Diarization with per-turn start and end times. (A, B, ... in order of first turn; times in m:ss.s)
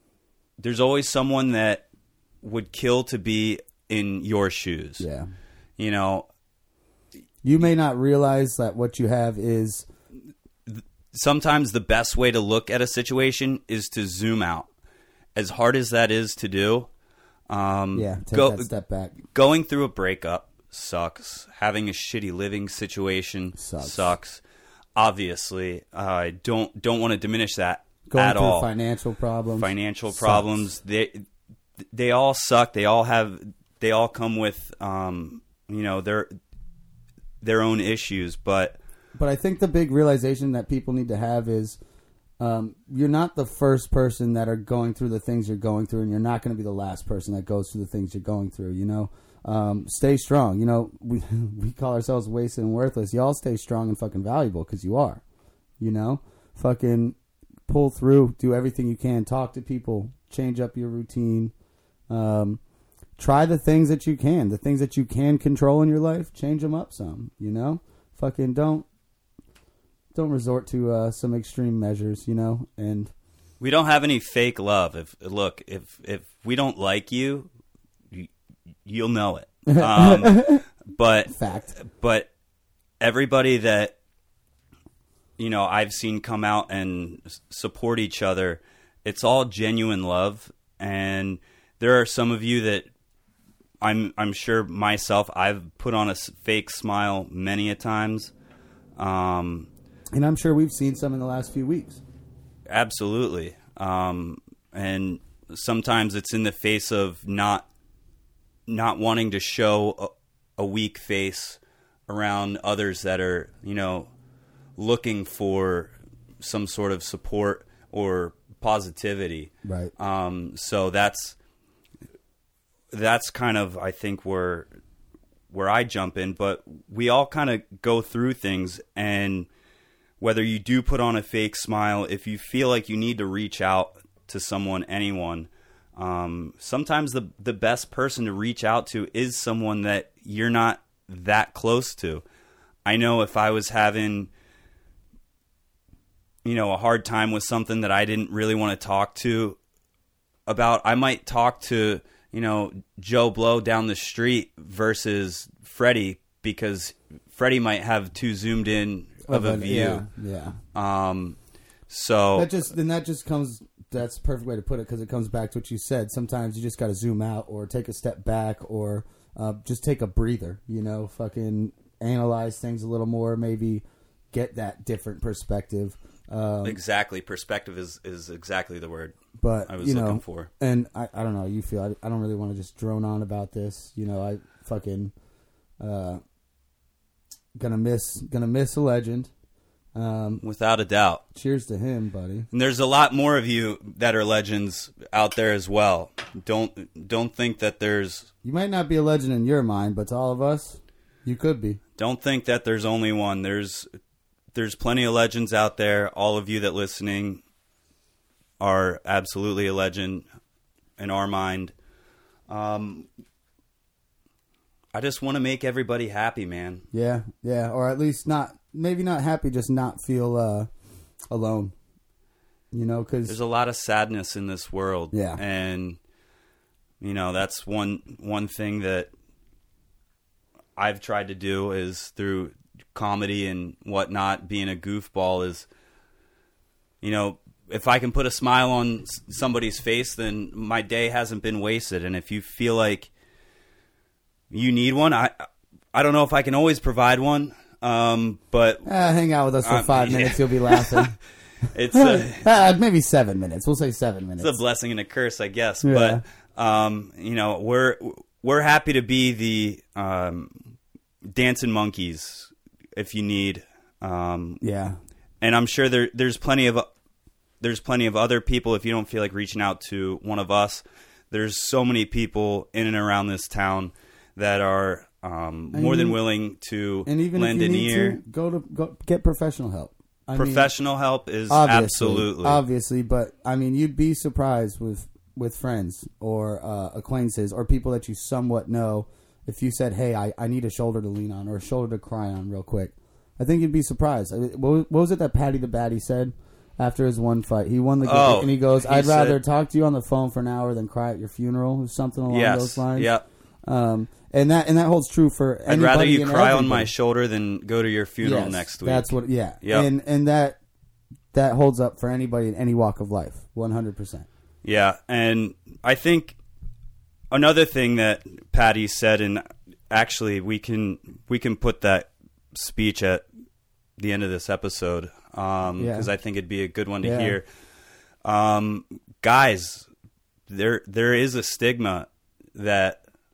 0:00.6-0:01.8 A
0:02.4-0:05.1 A
0:05.0-0:05.3 B
0:05.8-0:06.3 A
0:07.4-0:09.9 B
0:10.7-0:14.7 A
0:15.4-0:16.9 A
0:17.5-0:18.7 A
0:17.9-0:19.2 B
0:19.2-0:24.4 A
0:23.6-0:24.1 B
0:25.0-0:28.7 A
0:28.1-0:30.6 B
0:29.6-0:31.2 A
0:31.9-0:36.3 A
0:37.4-0:38.8 A
0:39.1-0:41.8 B
0:42.4-0:55.2 B
0:55.8-0:57.2 B
0:57.7-1:01.5 B
1:02.1-1:02.6 B
1:03.2-1:08.9 B
1:10.1-1:13.1 B
1:13.6-1:17.5 A
1:18.8-1:22.3 A
1:19.7-1:20.6 B
1:21.3-1:21.8 B
1:23.0-1:24.0 A
1:25.4-1:32.9 A
1:33.8-1:38.3 A
1:39.0-1:39.7 A
1:40.1-1:42.0 B
1:42.7-1:47.7 A
1:48.7-1:54.1 A
1:54.8-2:01.4 A
1:59.6-1:59.9 B
2:02.9-2:04.7 A
2:05.5-2:09.5 A
2:10.2-2:22.2 A
2:22.8-2:24.3 A
2:26.4-2:29.6 A
2:30.5-2:40.1 A
2:39.3-2:40.6 B
2:40.8-2:41.4 A
2:41.9-2:42.5 A
2:42.3-2:56.8 B
2:56.6-2:59.2 A
2:59.4-3:05.1 B
2:59.7-3:00.5 A
3:05.8-3:06.2 B
3:07.6-3:09.3 B
3:10.0-3:10.4 B
3:10.4-3:11.2 A
3:11.3-3:12.5 B
3:12.5-3:18.3 A
3:18.4-3:21.8 B
3:22.0-3:23.9 A
3:24.5-3:27.4 A
3:28.6-3:30.2 A
3:31.0-3:31.7 A
3:32.5-3:33.1 A
3:34.9-3:36.8 A
3:36.9-3:40.7 B
3:41.3-3:41.7 B
3:42.7-3:43.4 B
3:43.3-3:46.0 A
3:45.1-3:45.4 B
3:47.0-3:49.1 A
3:50.8-3:55.7 A
3:57.0-4:03.1 A
4:04.5-4:08.9 A
4:08.8-4:11.2 B
4:09.6-4:11.1 A
4:11.7-4:12.5 A
4:11.9-4:14.6 B
4:14.4-4:20.6 A
4:15.8-4:16.2 B
4:21.3-4:24.6 A
4:24.6-4:25.0 B
4:25.4-4:26.9 A
4:27.6-4:38.2 A
4:35.7-4:36.2 B
4:37.1-4:40.7 B
4:40.4-4:42.6 A
4:41.5-5:03.1 B
4:58.0-4:59.4 A
5:02.2-5:03.2 A
5:03.6-5:06.9 B
5:05.7-5:09.9 A
5:08.2-5:10.6 B
5:11.3-5:14.2 B
5:14.6-5:16.4 A
5:17.3-5:23.2 A
5:24.0-5:27.4 A
5:25.8-5:26.1 B
5:27.0-5:27.4 B
5:28.2-5:29.9 A
5:30.5-5:33.0 A